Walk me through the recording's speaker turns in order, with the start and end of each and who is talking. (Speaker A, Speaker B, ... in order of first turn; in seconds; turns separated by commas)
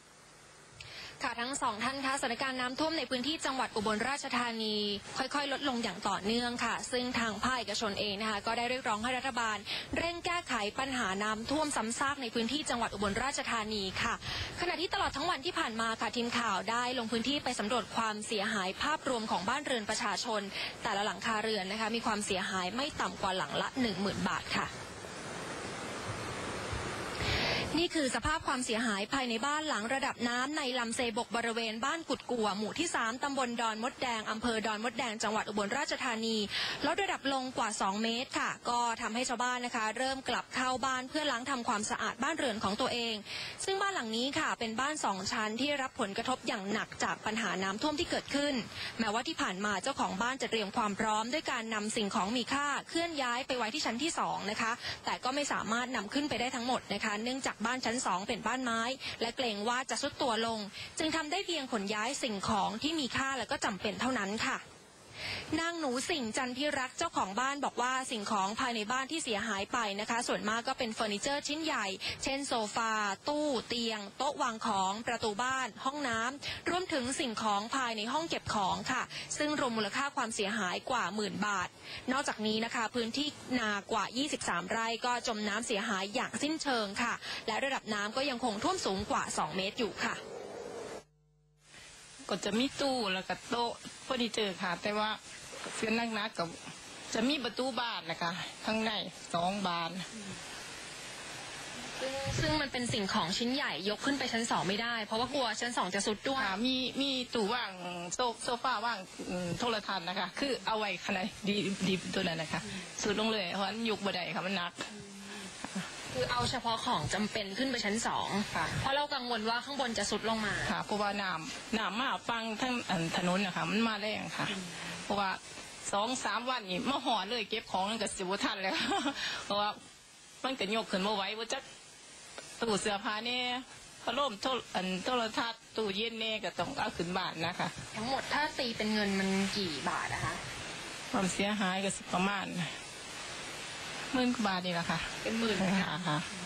Speaker A: 1.2-24.7, Speaker A: 27.7-64.6, Speaker A: 65.5-90.2, Speaker B: 92.3-96.6, Speaker B: 97.1-100.1, Speaker A: 102.0-106.5, Speaker B: 106.4-114.9, Speaker B: 115.4-115.9, Speaker A: 116.1-120.7, Speaker B: 120.6-129.8, Speaker B: 130.4-131.6, Speaker B: 132.6-137.8, Speaker A: 137.9-140.4, Speaker B: 141.1-142.7, Speaker B: 144.1-146.3, Speaker A: 145.2-145.9